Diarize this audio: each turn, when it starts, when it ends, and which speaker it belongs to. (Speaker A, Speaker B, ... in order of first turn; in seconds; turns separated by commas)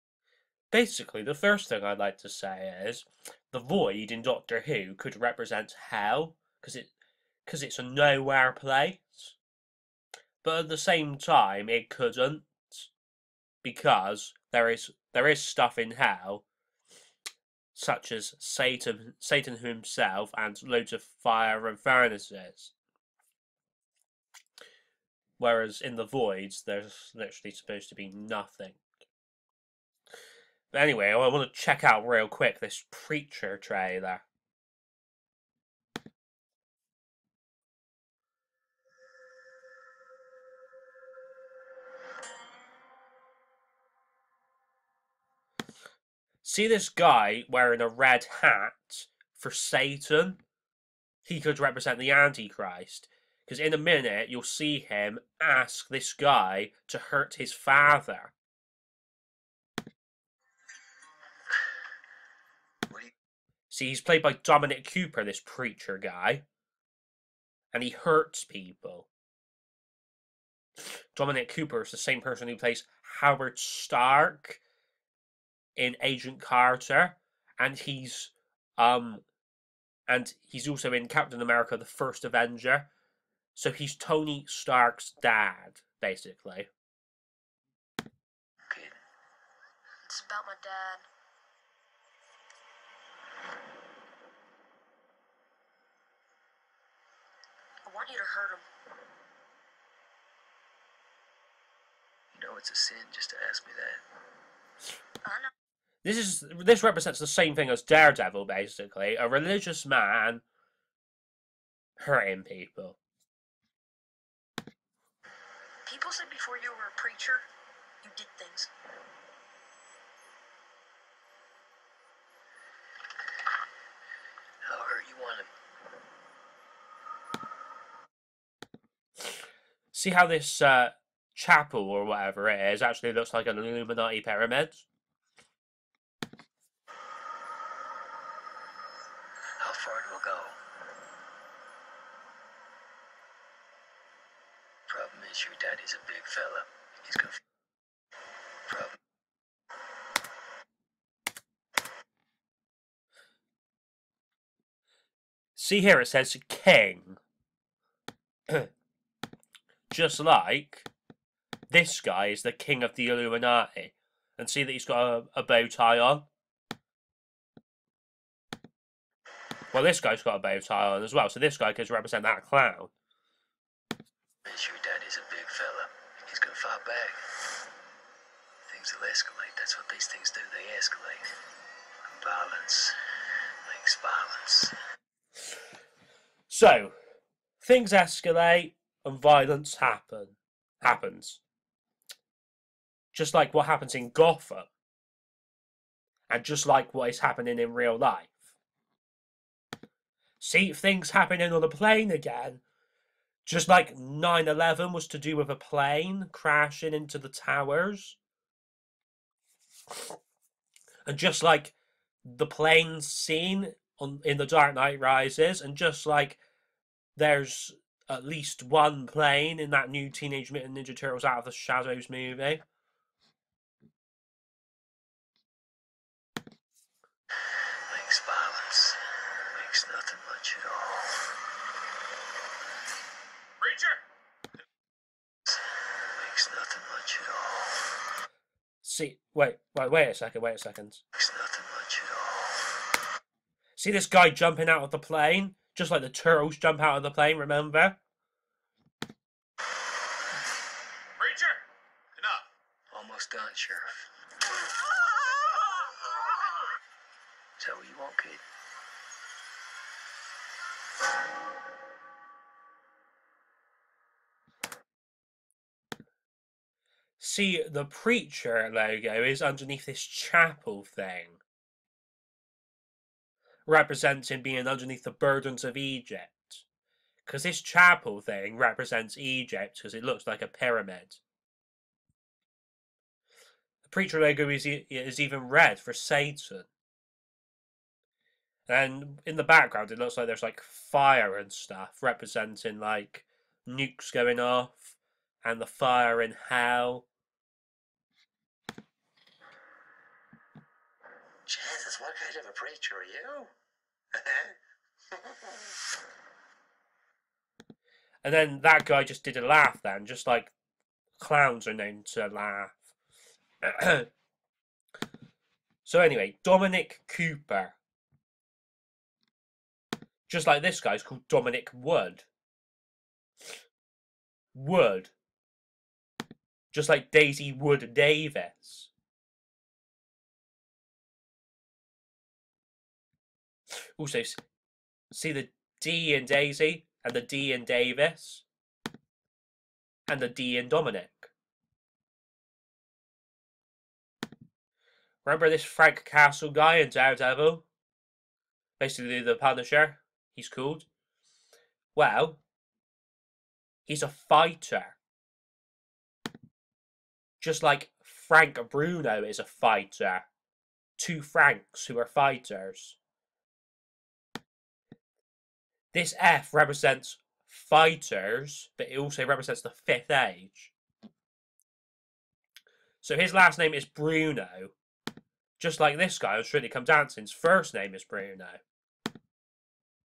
Speaker A: 0.7-6.9, Speaker A: 7.4-9.4, Speaker A: 10.4-12.9, Speaker A: 13.6-16.4, Speaker A: 17.7-22.7, Speaker A: 25.4-28.8, Speaker A: 30.7-34.2, Speaker A: 46.4-50.4, Speaker A: 51.2-58.3, Speaker A: 63.7-66.4, Speaker A: 67.7-69.1, Speaker A: 71.1-74.6, Speaker A: 75.8-79.2, Speaker A: 80.1-82.9, Speaker A: 83.5-86.7, Speaker B: 88.7-88.9, Speaker C: 90.0-91.0, Speaker C: 97.8-98.6, Speaker B: 102.3-104.0, Speaker A: 106.0-110.4, Speaker A: 112.0-113.0, Speaker C: 115.8-117.4, Speaker C: 118.0-118.7, Speaker B: 124.7-125.5, Speaker A: 129.9-134.9, Speaker B: 139.6-140.6, Speaker B: 144.9-147.4, Speaker B: 148.7-149.0, Speaker A: 155.6-157.2, Speaker A: 159.9-160.9, Speaker A: 161.7-166.3, Speaker A: 169.7-172.9, Speaker B: 174.4-177.2, Speaker B: 178.7-181.3, Speaker B: 182.1-182.9, Speaker B: 183.7-184.7, Speaker A: 186.5-186.9, Speaker A: 187.6-191.4, Speaker A: 193.1-194.7, Speaker A: 196.3-198.5, Speaker A: 200.4-202.6, Speaker A: 203.4-208.2, Speaker A: 211.1-216.4, Speaker A: 217.2-222.6, Speaker B: 227.9-229.0, Speaker B: 229.5-231.2, Speaker B: 235.5-237.8, Speaker A: 238.8-241.0, Speaker B: 241.1-242.7, Speaker A: 243.8-248.0, Speaker B: 252.9-254.0, Speaker B: 257.6-258.4, Speaker A: 267.2-271.4, Speaker A: 273.6-276.6, Speaker A: 277.2-281.2, Speaker A: 283.8-286.7, Speaker A: 288.7-297.1, Speaker B: 301.5-303.5, Speaker A: 308.2-310.5, Speaker A: 311.2-312.9, Speaker A: 313.6-314.1, Speaker A: 315.8-317.8, Speaker A: 320.3-322.3, Speaker A: 324.5-325.1, Speaker A: 326.7-328.9, Speaker A: 334.0-334.4, Speaker A: 335.1-338.4, Speaker A: 340.1-341.3, Speaker A: 345.2-347.6, Speaker A: 348.8-350.9, Speaker A: 351.9-352.4, Speaker A: 353.9-355.0, Speaker A: 357.4-360.3, Speaker A: 361.0-363.0, Speaker A: 365.9-370.7, Speaker A: 373.0-374.7, Speaker A: 375.6-378.6